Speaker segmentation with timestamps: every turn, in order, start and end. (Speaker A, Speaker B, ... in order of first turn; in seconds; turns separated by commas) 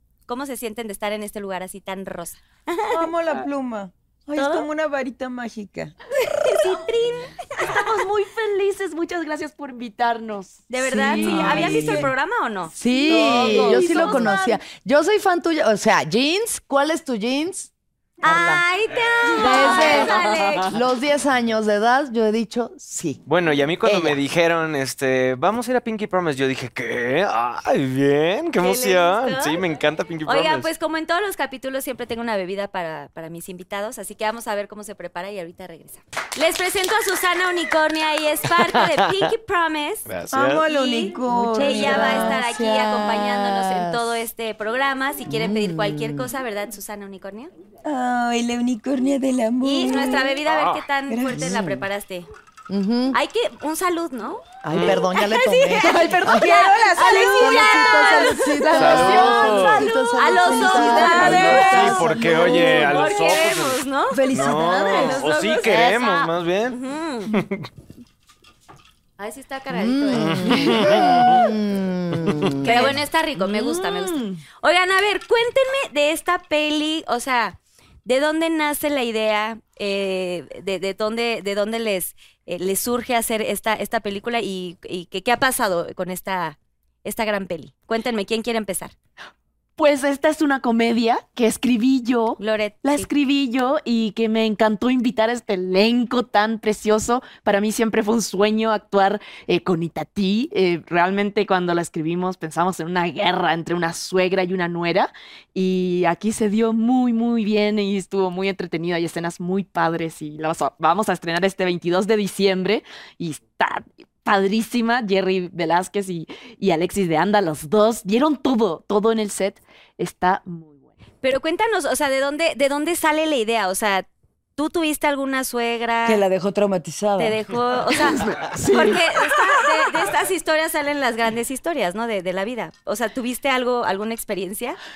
Speaker A: 0.3-3.0, Speaker B: 2.9-6.0, Speaker A: 4.4-4.7, Speaker A: 6.2-7.7, Speaker C: 7.6-12.0, Speaker A: 10.7-14.4, Speaker B: 10.8-12.1, Speaker D: 12.8-17.7, Speaker C: 12.9-14.6, Speaker A: 18.2-20.7, Speaker D: 18.2-18.6, Speaker D: 19.4-23.2, Speaker C: 19.4-20.2, Speaker E: 23.3-30.7, Speaker D: 23.8-24.2, Speaker A: 28.6-29.6, Speaker A: 30.3-40.1, Speaker E: 40.1-40.7, Speaker B: 40.3-42.4, Speaker A: 40.7-47.5, Speaker D: 41.3-44.0, Speaker D: 45.3-46.3, Speaker B: 47.8-50.4, Speaker A: 49.6-52.3, Speaker E: 50.5-50.9, Speaker B: 51.1-51.8, Speaker D: 51.4-51.7, Speaker D: 52.7-53.2, Speaker A: 53.1-67.3, Speaker D: 54.6-56.5, Speaker E: 54.7-55.1, Speaker B: 55.7-58.3, Speaker C: 57.0-57.3, Speaker D: 57.3-62.8, Speaker C: 57.9-59.8, Speaker E: 58.8-59.9, Speaker B: 59.0-63.1, Speaker E: 61.1-66.8, Speaker B: 64.1-65.3, Speaker E: 67.3-67.7, Speaker A: 69.2-70.7, Speaker D: 69.7-73.0, Speaker E: 70.2-71.5, Speaker C: 72.6-74.4, Speaker A: 72.6-88.9, Speaker C: 89.8-120.9, Speaker A: 92.4-93.1, Speaker A: 121.2-126.2, Speaker B: 126.0-127.4, Speaker A: 127.2-134.8, Speaker C: 128.1-129.0